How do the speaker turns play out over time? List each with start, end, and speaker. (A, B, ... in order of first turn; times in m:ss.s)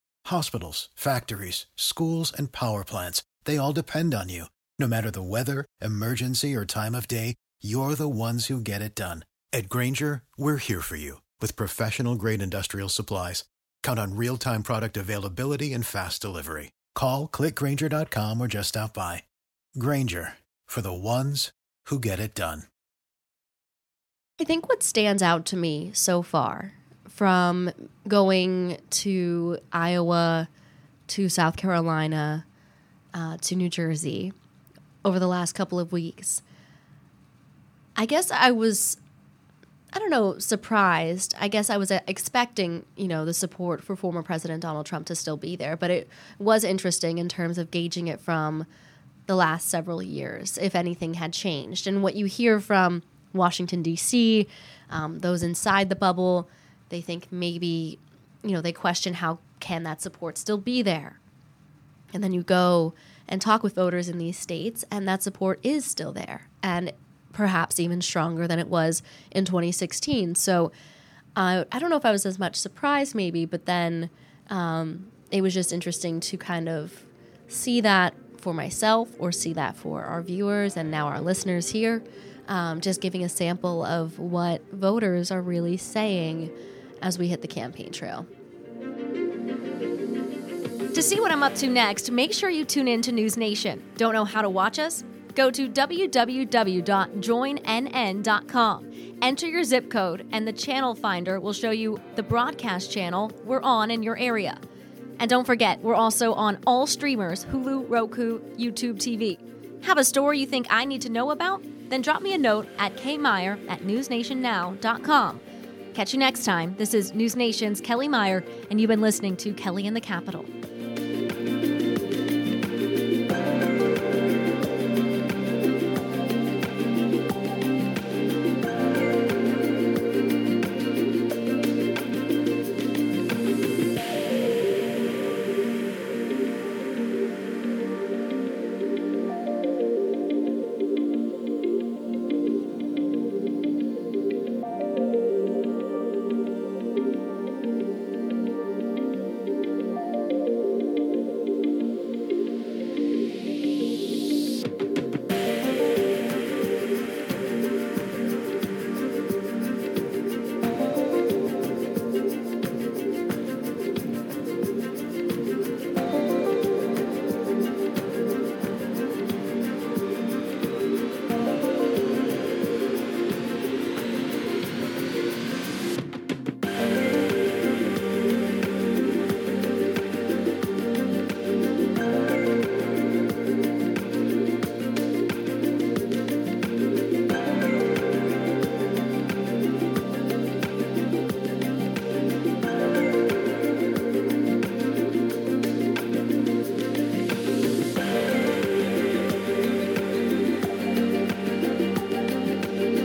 0:00.2-0:19.2 A
0:19.8-0:22.7 A
0:24.4-0:30.5 B
0:31.1-0:32.4 B
0:33.1-0:34.3 B
0:35.0-0:36.4 B
0:38.0-0:39.0 B
0:39.9-0:48.7 B
0:49.3-1:01.2 B
1:02.1-1:10.7 B
1:11.4-1:28.3 B
1:30.9-1:44.6 C
1:42.6-1:43.0 B
1:45.2-1:55.4 C
1:48.6-1:49.0 B
1:55.9-2:00.5 C
1:56.5-1:57.8 B